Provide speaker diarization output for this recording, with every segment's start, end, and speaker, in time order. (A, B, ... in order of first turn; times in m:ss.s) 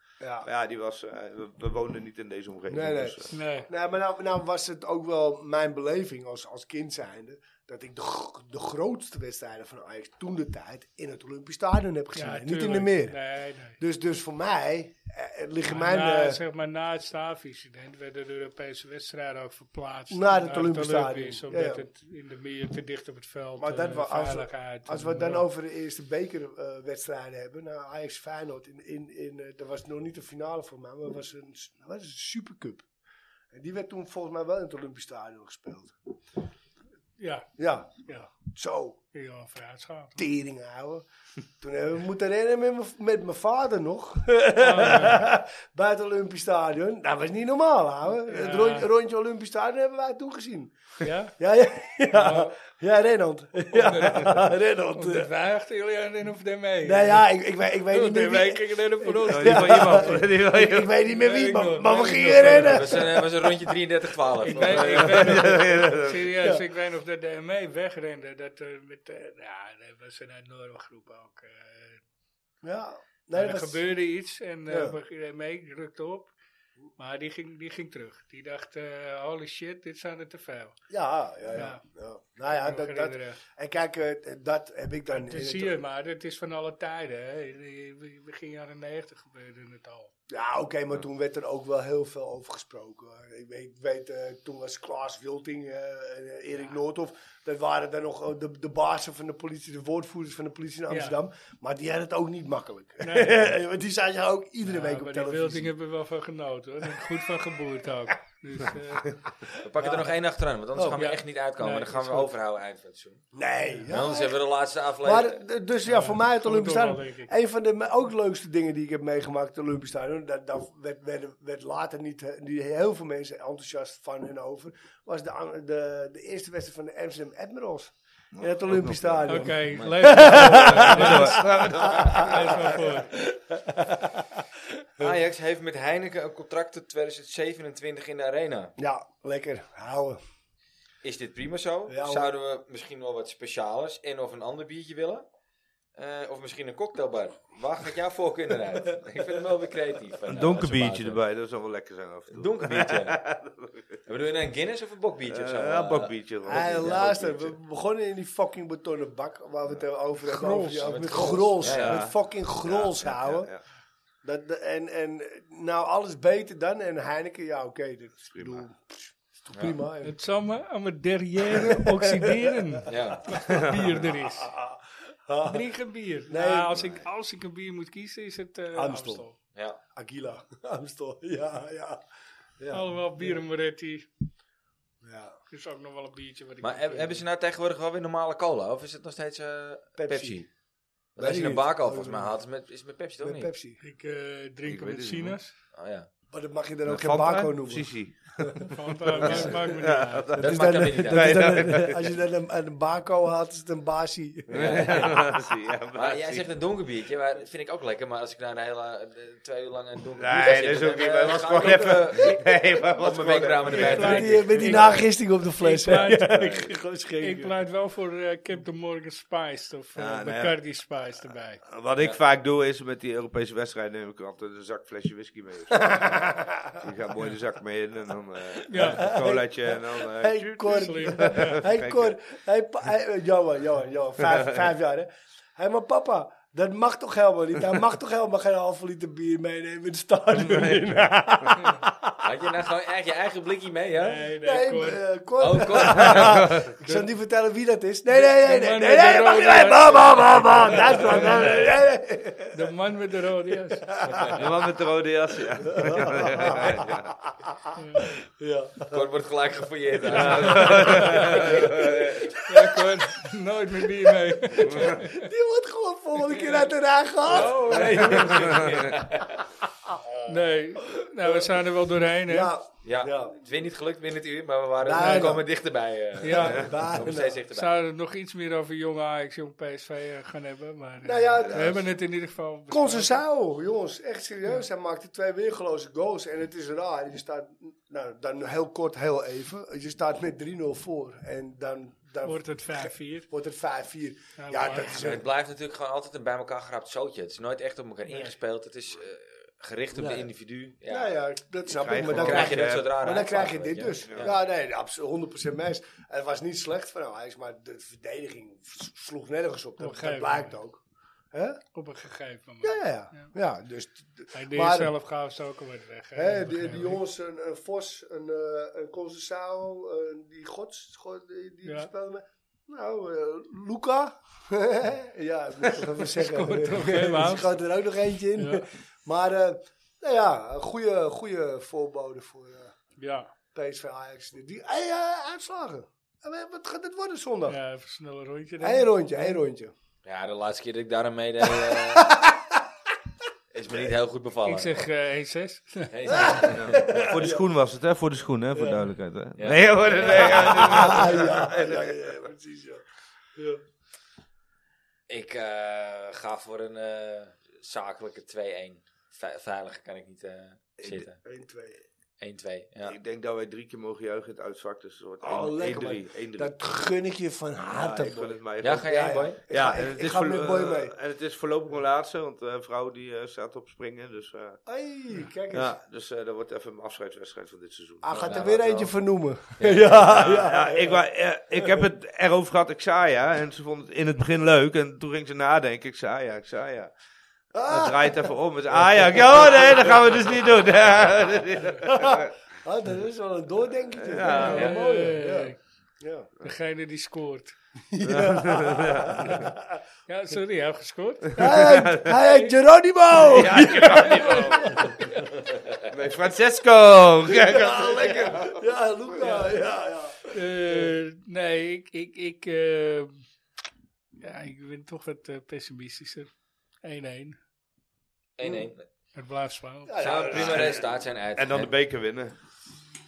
0:00.2-0:00.5 A
0:00.4-0:03.3 B
0:02.7-0:13.2 A
0:03.3-0:03.7 C
0:12.1-0:13.8 C
0:13.8-0:16.4 A
0:15.7-0:25.4 C
0:20.1-0:21.8 A
0:23.6-0:32.8 A
0:33.5-0:35.9 A
0:37.2-0:37.5 C
0:37.6-0:39.0 A
0:38.0-0:38.3 C
0:39.1-0:40.2 C
0:40.2-0:41.0 A
0:41.6-0:50.8 A
0:44.6-0:45.3 C
0:48.2-0:48.9 C
0:51.0-0:51.3 C
0:51.4-0:55.3 A
0:52.1-0:52.5 C
0:53.7-0:57.3 C
0:56.8-1:03.7 A
0:57.9-1:00.2 C
0:59.3-1:00.9 B
1:01.1-1:03.0 C
1:02.4-1:05.2 D
1:04.4-1:12.0 C
1:04.7-1:05.3 A
1:04.8-1:06.2 B
1:12.6-1:13.8 A
1:13.3-1:16.3 C
1:14.7-1:15.0 A
1:17.0-1:20.8 C
1:20.9-1:25.8 A
1:21.5-1:21.8 C
1:22.5-1:23.4 C
1:25.1-1:30.1 C
1:30.3-1:45.7 A
1:40.9-1:41.2 C
1:43.0-1:43.5 C
1:44.6-1:49.2 C
1:49.6-1:53.2 D
1:49.8-1:50.1 A
1:50.9-1:52.3 C
1:53.3-1:54.4 A
1:53.9-1:55.4 D
1:55.0-2:14.4 A
1:55.8-1:57.3 C
2:08.3-2:09.5 B
2:09.3-2:13.1 C
2:09.7-2:10.9 D
2:10.2-2:12.3 B
2:15.0-2:18.7 D
2:18.8-2:20.2 A
2:21.0-2:25.3 D
2:21.9-2:22.3 A
2:26.0-2:31.2 D
2:30.3-2:34.0 B
2:32.3-2:33.2 D
2:34.1-2:37.5 D
2:35.3-2:37.3 B
2:36.4-2:43.5 A
2:40.2-2:41.1 C
2:40.8-2:42.0 D
2:41.6-2:43.6 B
2:44.2-2:50.1 A
2:48.3-2:48.6 B
2:49.5-2:49.8 D
2:50.0-2:54.5 C
2:51.4-2:52.8 A
2:52.8-2:53.4 D
2:53.4-2:54.0 B
2:54.0-2:55.6 A
2:55.4-2:59.4 C
2:56.3-2:57.0 A
2:58.7-2:59.2 A
2:59.5-2:59.8 D
2:59.9-3:02.0 A
3:02.6-3:03.4 A
3:02.7-3:04.1 C
3:05.0-3:05.4 A
3:05.5-3:07.2 C
3:06.6-3:10.5 D
3:10.0-3:10.5 A
3:11.2-3:12.4 A
3:11.2-3:13.5 D
3:13.2-3:13.8 A
3:13.8-3:15.6 C
3:14.6-3:15.4 B
3:15.7-3:16.1 D
3:16.3-3:19.5 A
3:16.8-3:22.0 B
3:18.7-3:20.3 C
3:19.2-3:19.5 D
3:20.3-3:25.0 A
3:20.4-3:21.8 D
3:24.5-3:26.4 B
3:24.5-3:25.2 D
3:26.0-3:34.9 D
3:30.2-3:35.0 B
3:33.7-3:34.6 C
3:33.8-3:37.5 A
3:35.6-3:36.6 C
3:36.3-3:36.7 B
3:37.2-3:41.6 C
3:40.0-3:40.6 B
3:41.7-3:46.2 B
3:45.8-3:46.8 A
3:46.7-3:52.1 B
3:48.7-3:49.0 C
3:48.7-4:02.4 A
3:50.7-3:51.6 C
3:54.3-3:54.5 B
4:00.3-4:01.6 B
4:02.2-4:04.2 D
4:04.0-4:05.0 C
4:04.4-4:12.7 A
4:05.4-4:06.6 D
4:06.1-4:06.6 B
4:06.8-4:07.1 C
4:08.1-4:11.6 C
4:12.5-4:13.9 C
4:13.8-4:14.4 A
4:14.4-4:17.1 B
4:15.6-4:19.1 A
4:17.7-4:18.2 C
4:18.9-4:22.1 D
4:20.0-4:22.3 B
4:20.2-4:20.9 A
4:20.5-4:21.4 C
4:22.4-4:25.2 C
4:22.5-4:23.0 A
4:23.9-4:28.5 A
4:24.6-4:25.0 B
4:27.3-4:28.5 C
4:27.3-4:29.5 D
4:28.1-4:28.9 B
4:30.2-4:32.5 C
4:30.8-4:31.6 A
4:32.2-4:33.3 A
4:32.8-4:37.8 D
4:34.8-4:35.5 A
4:34.9-4:35.4 C
4:36.2-4:36.6 C
4:36.2-4:37.4 A
4:37.5-4:43.2 C
4:41.0-4:41.8 A
4:41.4-4:41.9 B
4:42.7-4:55.2 A
4:52.2-4:53.3 C
4:54.4-4:55.1 C
4:54.8-5:01.1 D
4:59.9-5:00.3 A
5:00.9-5:11.6 A
5:01.8-5:02.9 B
5:02.1-5:04.4 D
5:04.0-5:04.3 B
5:09.8-5:10.6 C
5:11.7-5:13.3 C
5:12.6-5:14.9 A
5:14.3-5:17.0 C
5:16.1-5:32.7 A
5:21.6-5:21.9 C
5:26.1-5:27.6 C
5:28.4-5:28.6 C
5:33.0-5:33.3 C
5:33.5-5:37.6 A
5:37.5-5:39.4 C
5:38.6-5:39.7 A
5:40.0-5:42.1 D
5:41.4-5:42.6 A
5:43.5-5:44.8 D
5:44.4-5:45.9 C
5:45.9-5:47.0 D
5:46.1-5:47.4 A
5:46.4-5:52.2 B
5:48.5-5:48.8 A
5:49.4-5:51.3 D
5:50.0-5:52.8 A
5:53.4-5:53.6 A
5:55.1-6:01.2 D
6:00.8-6:01.0 B
6:01.2-6:01.8 A
6:02.2-6:03.0 D
6:02.8-6:06.5 B
6:05.2-6:10.9 A
6:07.7-6:14.6 B
6:08.6-6:09.4 D
6:14.6-6:15.7 A
6:15.5-6:18.9 B
6:18.0-6:21.9 A
6:19.6-6:20.0 D
6:19.8-6:26.9 B
6:27.5-6:30.5 A
6:27.6-6:32.3 B
6:31.8-6:36.3 A
6:34.0-6:34.7 B
6:34.3-6:35.6 C
6:36.4-6:37.6 C
6:37.9-6:39.8 A
6:38.0-6:39.5 B
6:40.1-6:42.5 C
6:41.3-6:45.4 A
6:41.4-6:42.2 B
6:43.2-6:45.3 B
6:43.5-6:44.8 C
6:45.8-6:48.6 B
6:47.2-6:50.9 A
6:49.2-6:49.5 C
6:50.3-6:53.2 C
6:54.2-6:56.3 C
6:56.8-6:57.4 C
6:58.4-6:58.9 D
6:58.4-6:58.7 A
6:59.1-7:00.0 C
6:59.9-7:00.9 A
7:00.0-7:01.7 D
7:00.2-7:02.3 B